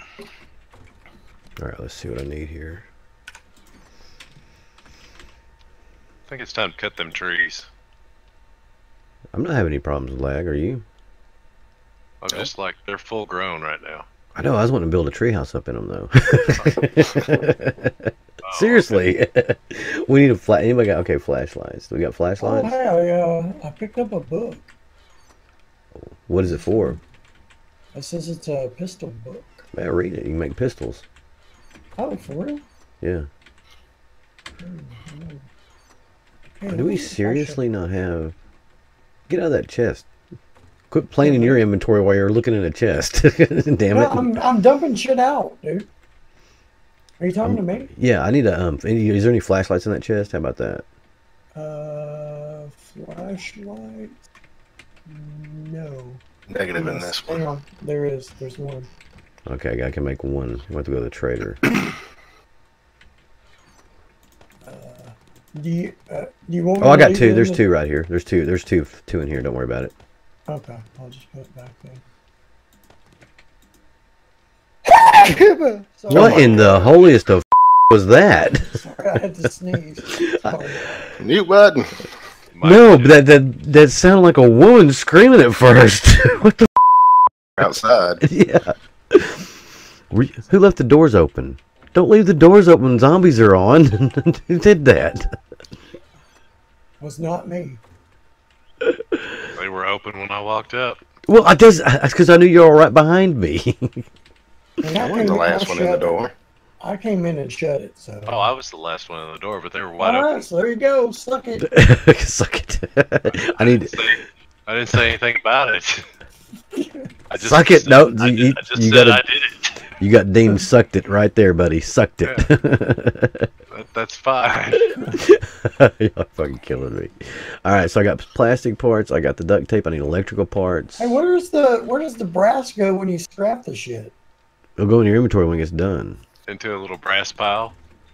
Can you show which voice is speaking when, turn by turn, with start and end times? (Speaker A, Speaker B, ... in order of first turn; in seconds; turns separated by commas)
Speaker A: 1.6-2.9, Speaker B: 6.3-7.7, Speaker A: 9.3-10.8, Speaker B: 12.2-14.1, Speaker A: 14.3-22.8, Speaker B: 16.6-16.9, Speaker B: 18.4-19.0, Speaker C: 22.4-24.7, Speaker A: 26.0-27.0, Speaker C: 26.4-27.0, Speaker C: 27.9-29.7, Speaker A: 29.7-31.0, Speaker C: 32.0-32.6, Speaker A: 33.0-33.3, Speaker C: 34.6-35.5, Speaker C: 36.6-37.6, Speaker A: 36.7-38.3, Speaker A: 39.3-40.1, Speaker A: 40.9-44.3, Speaker C: 41.2-41.6, Speaker C: 43.9-45.9, Speaker C: 47.2-47.9, Speaker A: 47.4-50.8, Speaker C: 51.5-54.1, Speaker C: 55.0-56.2, Speaker D: 56.5-57.4, Speaker C: 56.8-58.9, Speaker A: 59.5-61.6, Speaker C: 64.6-67.6, Speaker A: 66.8-69.9, Speaker C: 70.5-72.0, Speaker C: 74.8-76.6, Speaker D: 76.1-76.9, Speaker A: 76.1-78.8, Speaker C: 78.7-81.0, Speaker D: 81.2-82.1, Speaker B: 82.5-83.2, Speaker A: 82.6-86.8, Speaker D: 87.6-88.2, Speaker A: 88.2-89.5, Speaker A: 90.1-95.3, Speaker C: 97.0-97.8, Speaker A: 98.8-99.3, Speaker B: 99.5-101.0, Speaker A: 101.3-104.1, Speaker C: 104.8-106.2, Speaker D: 105.0-106.3, Speaker A: 105.0-105.3, Speaker C: 106.8-108.5, Speaker B: 108.3-110.4, Speaker C: 110.0-111.7, Speaker A: 111.7-114.0, Speaker B: 113.3-116.1, Speaker C: 116.7-117.1, Speaker B: 117.3-119.9, Speaker A: 117.4-119.2, Speaker A: 120.0-123.5, Speaker B: 122.2-122.5, Speaker B: 123.7-124.9, Speaker A: 124.8-131.2, Speaker C: 131.0-134.1, Speaker A: 134.8-136.2, Speaker B: 136.5-137.7